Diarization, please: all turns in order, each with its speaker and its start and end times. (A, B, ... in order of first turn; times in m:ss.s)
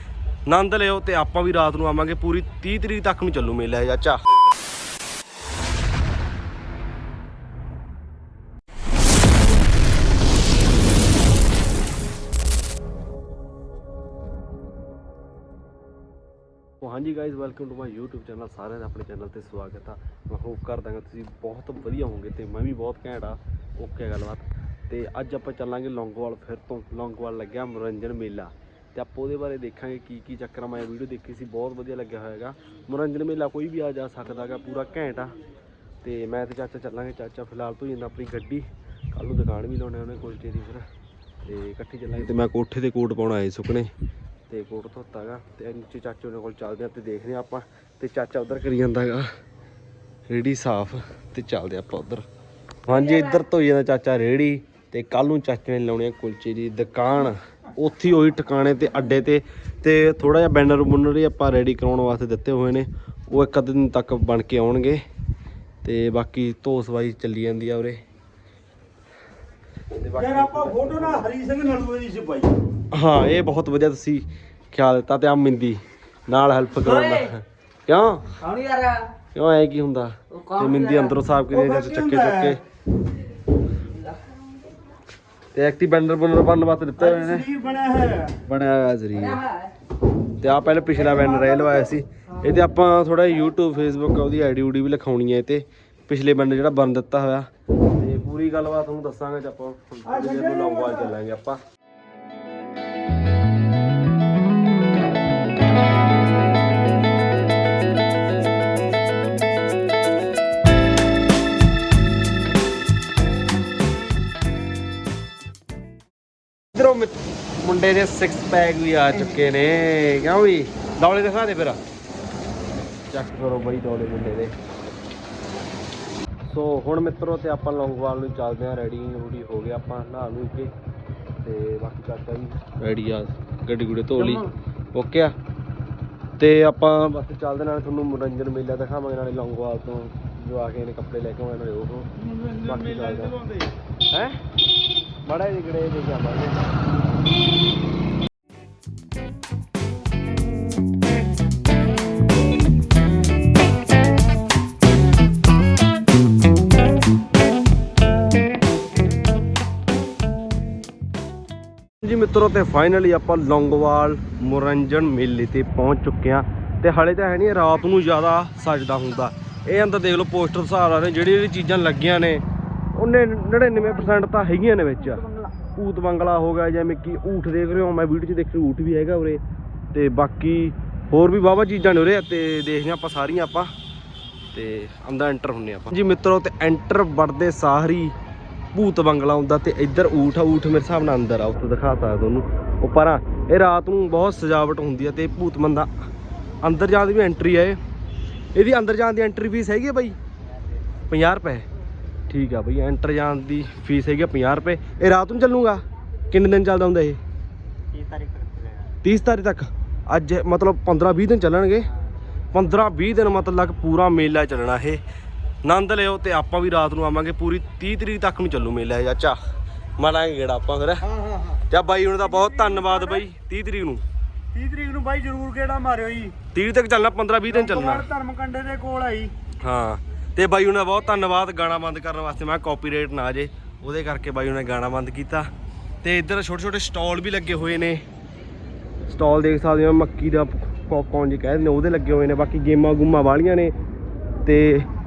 0:00.4-0:04.2 A
0:16.8-0:35.3 A
0:36.0-0:40.9 A
0:41.4-0:43.9 A
0:44.5-0:49.3 A
0:50.3-0:52.2 A
0:52.8-1:05.0 A
1:05.8-1:08.0 A
1:09.9-1:11.3 A
1:10.2-1:12.6 B
1:12.9-1:18.7 A
1:18.6-1:19.0 B
1:19.3-1:22.6 A
1:21.7-1:22.4 B
1:25.5-1:27.5 A
1:27.1-1:28.4 B
1:28.4-1:29.5 A
1:30.4-1:41.6 A
1:40.2-1:41.0 B
1:56.7-2:01.8 A
2:03.1-2:04.6 A
2:06.4-2:10.7 A
2:11.3-2:15.4 A
2:16.4-2:23.5 A
2:24.1-2:24.4 A
2:25.2-2:26.7 A
2:42.0-2:59.4 A
2:59.9-3:03.7 A
3:04.5-3:08.2 A
3:08.7-3:16.1 A
3:16.6-3:17.8 A
3:18.5-3:20.2 A
3:21.1-3:21.7 A
3:22.3-3:27.2 A
3:27.9-3:28.9 B
3:29.0-3:31.9 A
3:32.5-3:35.0 A
3:35.6-3:39.4 A
3:40.0-3:44.0 A
3:42.5-3:43.0 B
3:44.5-3:46.4 B
3:46.5-3:48.1 A
3:47.6-3:49.3 B
3:49.6-3:55.5 A
3:56.0-3:58.0 A
3:59.1-4:03.7 A
4:04.4-4:04.9 A